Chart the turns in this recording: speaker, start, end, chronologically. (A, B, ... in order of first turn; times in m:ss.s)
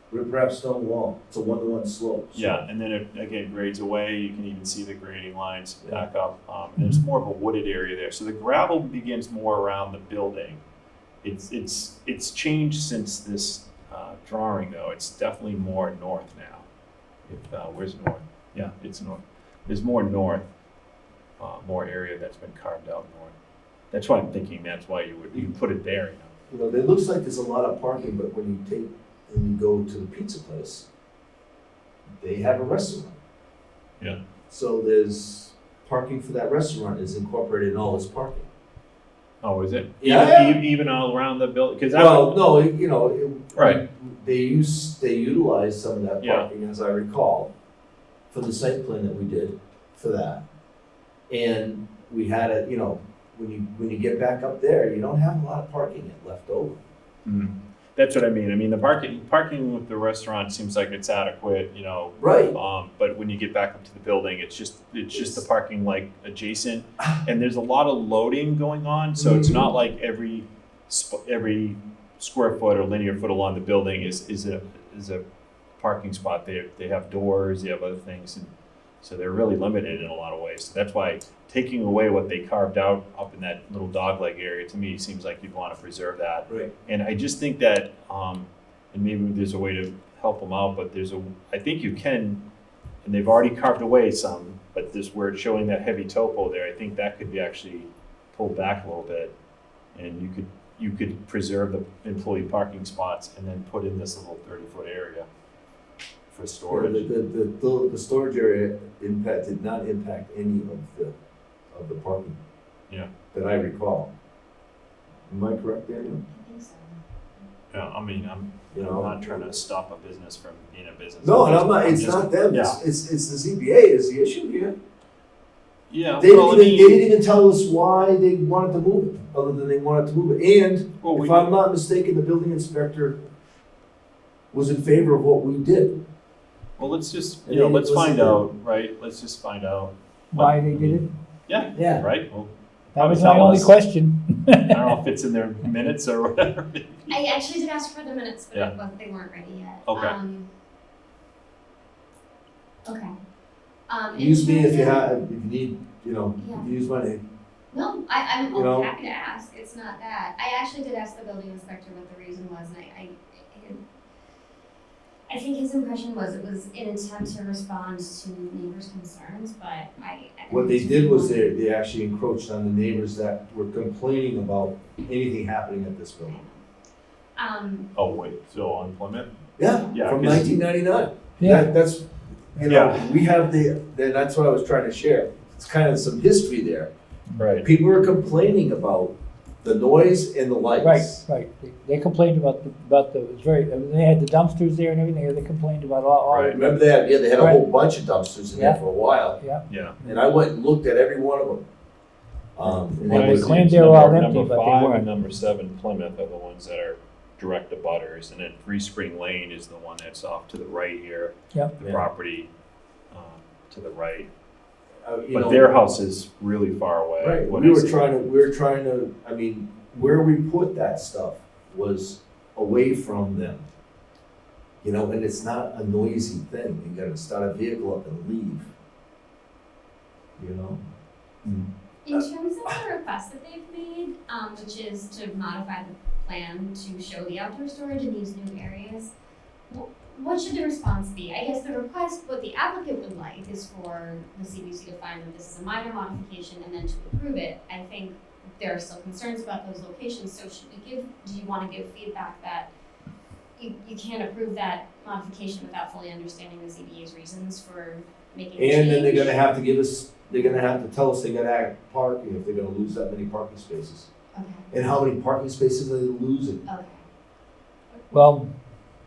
0:00.1-0:02.6 A
0:02.3-0:10.6 B
0:11.2-0:16.6 B
0:17.3-0:20.5 B
0:21.4-0:23.3 B
0:23.9-0:26.3 B
0:26.5-0:30.8 A
0:32.2-0:33.2 A
0:34.5-0:38.5 A
0:39.4-0:42.4 B
0:40.0-0:40.6 A
0:41.9-0:47.5 A
0:43.5-0:43.8 B
0:46.2-0:46.5 B
0:48.3-0:50.4 A
0:51.3-0:56.8 A
0:57.2-1:15.2 B
1:02.2-1:02.5 A
1:05.1-1:05.4 A
1:09.2-1:09.6 A
1:15.8-1:18.5 B
1:19.0-1:32.4 B
1:33.0-1:39.3 B
1:39.9-1:45.3 B
1:46.3-1:47.1 B
1:46.7-1:51.1 A
1:51.7-1:52.4 A
1:53.3-1:54.1 A
1:55.3-1:56.2 A
1:56.3-1:57.0 C
1:57.7-2:02.8 B
1:58.7-1:59.5 A
2:01.2-2:04.7 A
2:05.9-2:07.1 B
2:06.2-2:13.2 A
2:11.0-2:11.5 B
2:14.5-2:16.0 A
2:16.8-2:23.7 B
2:17.4-2:18.4 A
2:20.3-2:21.1 D
2:21.7-2:22.1 A
2:22.9-2:24.9 D
2:24.7-2:27.1 B
2:27.1-2:30.5 C
2:29.8-2:30.2 B
2:32.8-2:33.1 C
2:33.9-2:35.1 C
2:34.1-2:37.2 A
2:36.4-2:36.7 C
2:37.7-2:43.8 C
2:38.5-2:38.9 A
2:45.3-2:51.5 C
2:50.5-2:56.4 A
2:56.2-2:56.6 C
2:57.4-2:57.9 C
2:58.0-2:59.3 B
2:59.6-3:06.9 A
2:59.9-3:00.6 B
3:01.4-3:01.7 D
3:02.6-3:03.1 B
3:07.4-3:07.6 B
3:07.6-3:11.2 A
3:10.8-3:16.8 D
3:16.3-3:16.6 B
3:16.5-3:19.4 A
3:17.4-3:17.6 D
3:18.5-3:18.8 D
3:19.4-3:20.2 D
3:19.7-3:20.0 B
3:20.0-3:21.6 A
3:22.6-3:24.0 A
3:23.0-3:25.1 D
3:23.0-3:32.5 B
3:33.1-3:34.3 B
3:35.0-3:35.7 A
3:35.3-3:38.1 B
3:37.2-3:43.6 A
3:44.8-3:48.7 A
3:50.4-3:50.8 A
3:52.0-3:59.1 C
3:59.7-4:12.7 C
4:13.6-4:19.5 C
4:18.6-4:24.1 A
4:24.3-4:24.7 C
4:24.7-4:26.6 A
4:26.6-4:27.0 C
4:28.1-4:28.5 D